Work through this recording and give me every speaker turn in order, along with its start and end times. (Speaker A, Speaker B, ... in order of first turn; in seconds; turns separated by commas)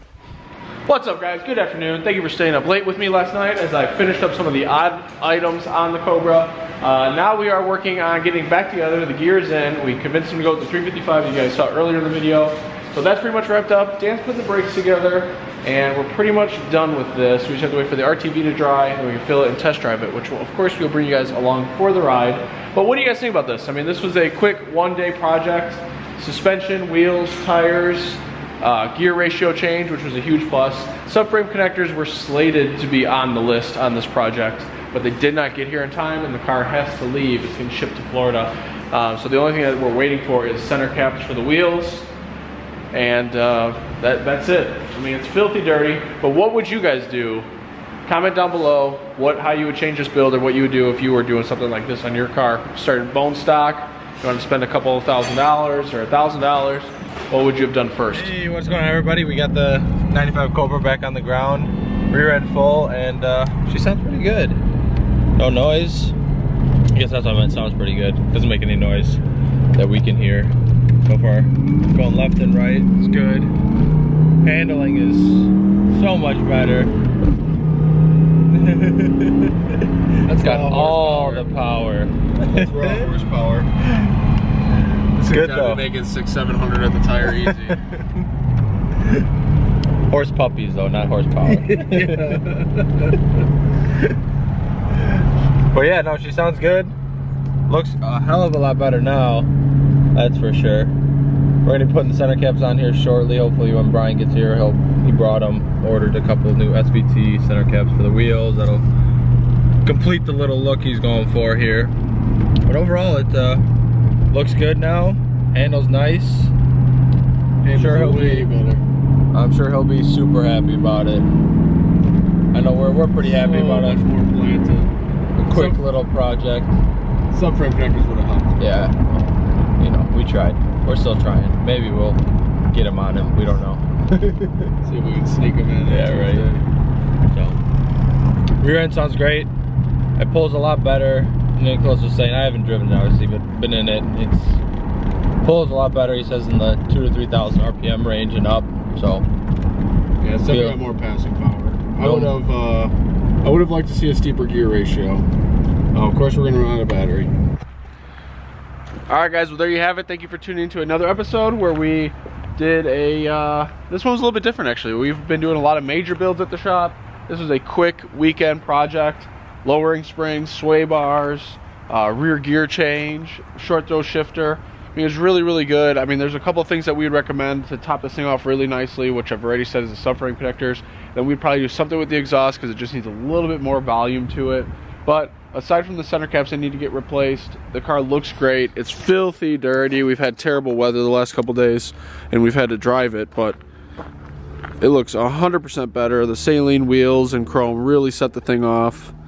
Speaker A: 0.9-42.1, Speaker A: 42.9-47.5, Speaker A: 48.1-58.3, Speaker B: 58.1-64.6, Speaker B: 65.4-66.2, Speaker B: 66.9-69.2, Speaker B: 69.7-70.5, Speaker B: 71.0-73.5, Speaker B: 74.4-76.9, Speaker B: 78.5-83.1, Speaker A: 80.2-81.5, Speaker A: 82.4-83.9, Speaker A: 85.2-88.0, Speaker B: 85.2-85.8, Speaker B: 90.1-92.4, Speaker A: 91.5-93.2, Speaker B: 95.7-97.0, Speaker B: 97.7-99.5, Speaker B: 100.1-101.0, Speaker B: 101.6-108.9, Speaker B: 109.8-111.9, Speaker B: 112.7-113.6, Speaker B: 114.3-116.5, Speaker A: 117.6-118.8, Speaker B: 117.7-118.5, Speaker B: 119.3-121.3, Speaker B: 122.5-124.0, Speaker A: 123.2-124.9, Speaker B: 125.4-126.8, Speaker A: 125.5-125.9, Speaker A: 127.3-128.6, Speaker B: 128.6-129.0, Speaker B: 129.8-134.7, Speaker A: 134.8-136.6, Speaker B: 135.9-136.5, Speaker B: 137.2-137.6, Speaker B: 138.6-139.5, Speaker B: 140.2-144.6, Speaker B: 145.4-149.2, Speaker A: 150.2-155.3, Speaker B: 150.5-150.8, Speaker B: 152.0-152.3, Speaker A: 155.9-157.3, Speaker A: 159.1-193.6, Speaker A: 194.8-199.2